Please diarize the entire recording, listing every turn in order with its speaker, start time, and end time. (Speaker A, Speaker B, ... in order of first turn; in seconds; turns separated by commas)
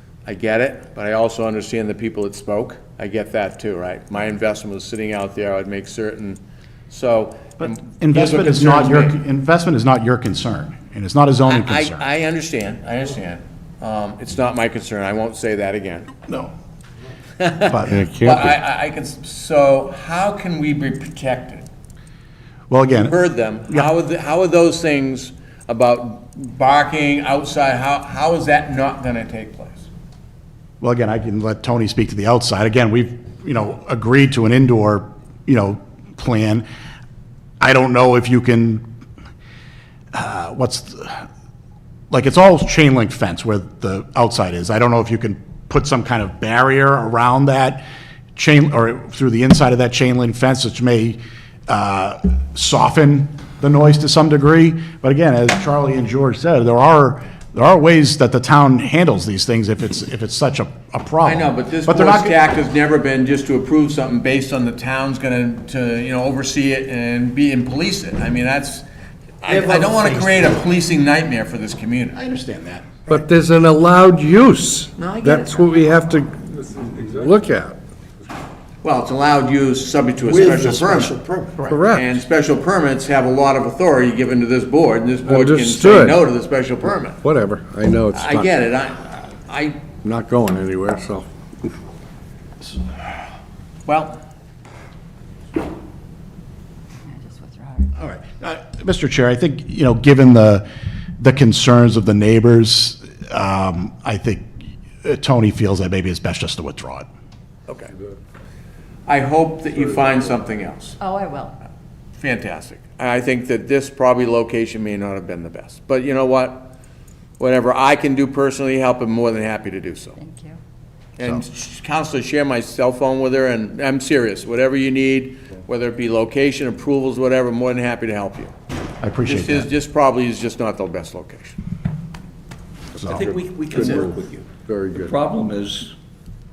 Speaker A: 0.2-9.2, Speaker B: 7.6-12.0, Speaker A: 11.5-16.1, Speaker A: 17.4-21.7, Speaker B: 17.7-18.4, Speaker C: 17.9-18.5, Speaker B: 22.7-23.1, Speaker A: 23.0-29.9, Speaker B: 30.8-36.6, Speaker B: 37.6-38.8, Speaker B: 40.1-41.2, Speaker B: 42.1-47.8, Speaker B: 48.4-62.3, Speaker A: 61.2-68.8, Speaker A: 69.4-72.2, Speaker B: 69.5-70.5, Speaker B: 72.1-73.0, Speaker C: 73.1-77.8, Speaker A: 75.0-75.7, Speaker A: 78.8-81.2, Speaker B: 80.5-81.8, Speaker C: 81.7-82.2, Speaker A: 81.8-87.2, Speaker C: 85.2-86.2, Speaker C: 87.2-88.5, Speaker A: 88.1-89.8, Speaker C: 90.0-91.7, Speaker A: 93.8-94.2, Speaker D: 97.1-97.9, Speaker B: 98.0-100.7, Speaker B: 101.2-107.1, Speaker A: 107.7-107.9, Speaker A: 109.0-111.0, Speaker D: 111.0-111.6, Speaker A: 112.2-116.7, Speaker A: 117.4-120.2, Speaker D: 120.2-120.6, Speaker A: 121.2-128.5, Speaker B: 129.0-129.7, Speaker A: 129.2-131.6, Speaker B: 133.0-133.3, Speaker E: 133.0-135.9, Speaker C: 133.7-135.1, Speaker A: 133.8-134.0